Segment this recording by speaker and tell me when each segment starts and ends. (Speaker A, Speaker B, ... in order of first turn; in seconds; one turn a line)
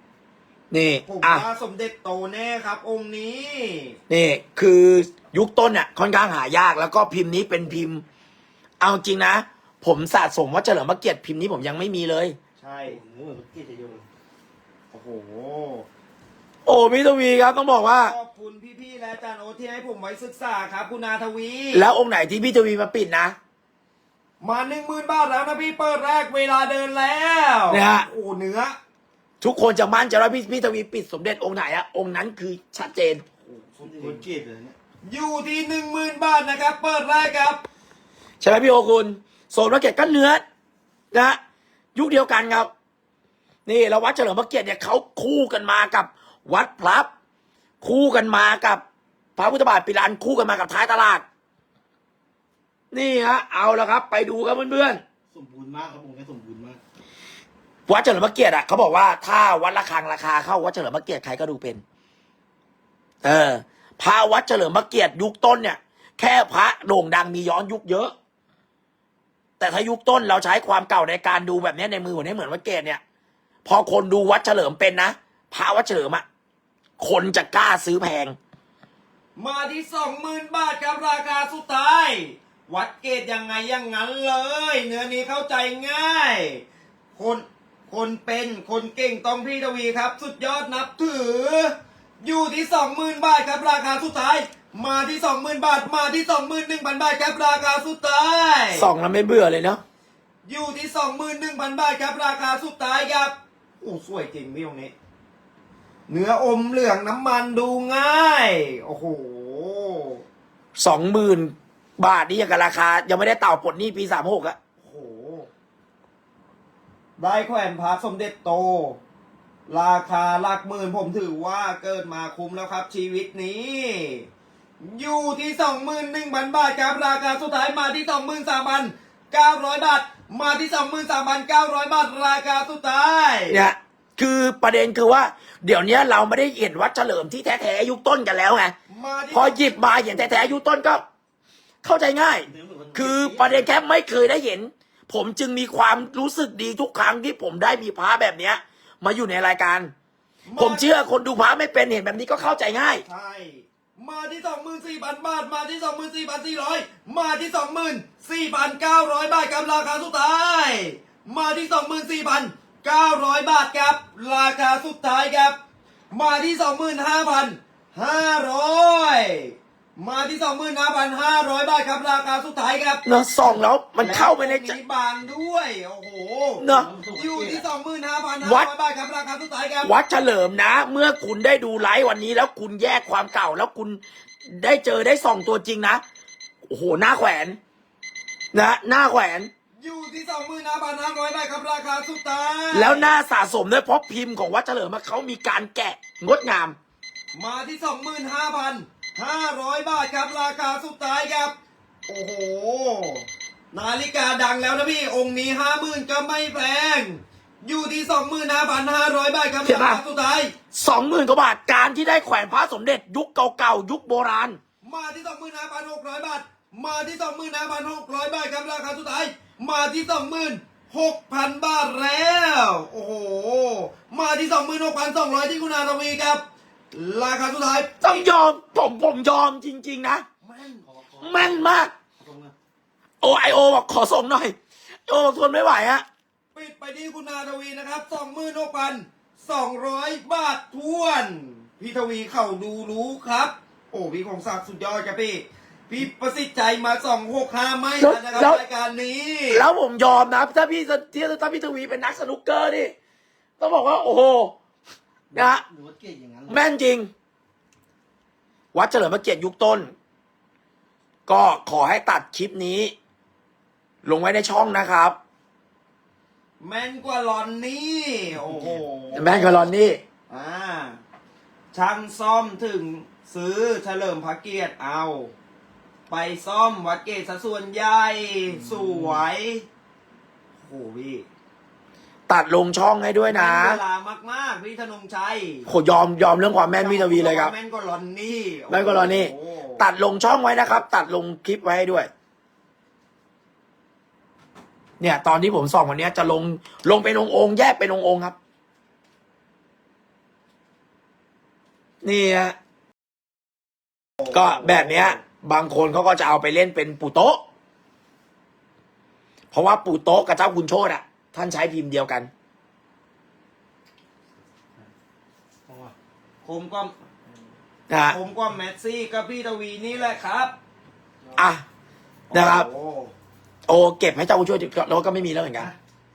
Speaker A: 0.7-1.4
Speaker B: 1.1-4.0
Speaker A: 4.1-8.0
Speaker A: 8.8-12.3
Speaker B: 12.6-13.0
Speaker C: 12.8-14.1
Speaker B: 14.9-15.9
Speaker A: 16.6-18.1
Speaker B: 18.0-21.9
Speaker A: 21.7-23.4
Speaker B: 24.4-28.8
Speaker A: 27.7-28.1
Speaker A: 29.4-33.2
Speaker B: 33.4-34.2
Speaker C: 33.8-34.8
Speaker B: 35.1-37.6
Speaker A: 38.4-40.4
Speaker A: 41.1-41.4
Speaker A: 41.9-42.7
Speaker A: 43.6-47.1
Speaker A: 47.8-48.8
Speaker A: 49.4-51.2
Speaker A: 52.9-55.0
Speaker C: 55.3-56.8
Speaker A: 57.9-61.8
Speaker A: 63.2-68.1
Speaker A: 69.6-73.0
Speaker A: 73.6-76.2
Speaker A: 77.0-78.3
Speaker B: 79.4-86.6
Speaker B: 87.1-98.9
Speaker A: 98.7-99.8
Speaker B: 100.4-104.9
Speaker B: 106.1-110.2
Speaker A: 110.8-114.6
Speaker B: 114.8-115.5
Speaker B: 117.2-119.0
Speaker B: 119.7-124.3
Speaker B: 124.8-133.6
Speaker A: 133.5-138.7
Speaker B: 138.9-140.6
Speaker A: 139.3-141.0
Speaker A: 141.8-149.9
Speaker C: 142.5-143.7
Speaker B: 150.5-150.9
Speaker A: 150.6-153.0
Speaker B: 153.0-165.6
Speaker B: 166.1-173.0
Speaker A: 173.0-174.8
Speaker B: 174.0-179.9
Speaker A: 176.6-176.9
Speaker C: 176.6-177.6
Speaker A: 178.4-178.7
Speaker A: 179.8-186.0
Speaker A: 186.7-187.6
Speaker A: 188.5-189.5
Speaker B: 189.8-193.1
Speaker A: 192.7-196.8
Speaker B: 197.3-201.5
Speaker B: 202.1-210.5
Speaker A: 209.6-210.0
Speaker A: 210.7-214.6
Speaker B: 214.8-228.2
Speaker A: 228.0-230.2
Speaker B: 230.4-230.8
Speaker C: 230.8-231.7
Speaker A: 231.2-231.9
Speaker C: 232.2-232.5
Speaker A: 233.2-234.6
Speaker A: 235.1-236.0
Speaker B: 236.5-249.6
Speaker A: 248.0-248.6
Speaker A: 249.5-252.9
Speaker A: 253.6-254.6
Speaker C: 255.3-256.6
Speaker A: 255.3-255.6
Speaker A: 256.5-257.1
Speaker A: 258.7-259.9
Speaker A: 261.3-262.9
Speaker A: 264.0-265.2
Speaker B: 266.6-269.7
Speaker C: 268.4-268.8
Speaker A: 269.1-270.0
Speaker B: 270.3-271.0
Speaker B: 271.7-275.3
Speaker B: 276.1-279.6
Speaker C: 278.6-279.2
Speaker B: 280.6-281.3
Speaker A: 282.3-283.8
Speaker B: 283.3-285.7
Speaker A: 285.7-287.5
Speaker B: 286.8-289.8
Speaker A: 288.7-292.1
Speaker A: 295.0-298.4
Speaker A: 302.0-302.6
Speaker B: 304.2-305.2
Speaker A: 304.3-307.4
Speaker A: 309.5-312.3
Speaker C: 315.7-315.9
Speaker B: 316.4-316.9
Speaker A: 317.9-318.2
Speaker B: 318.1-320.5
Speaker A: 321.3-321.6
Speaker B: 322.3-323.1
Speaker A: 322.3-322.7
Speaker A: 323.7-325.7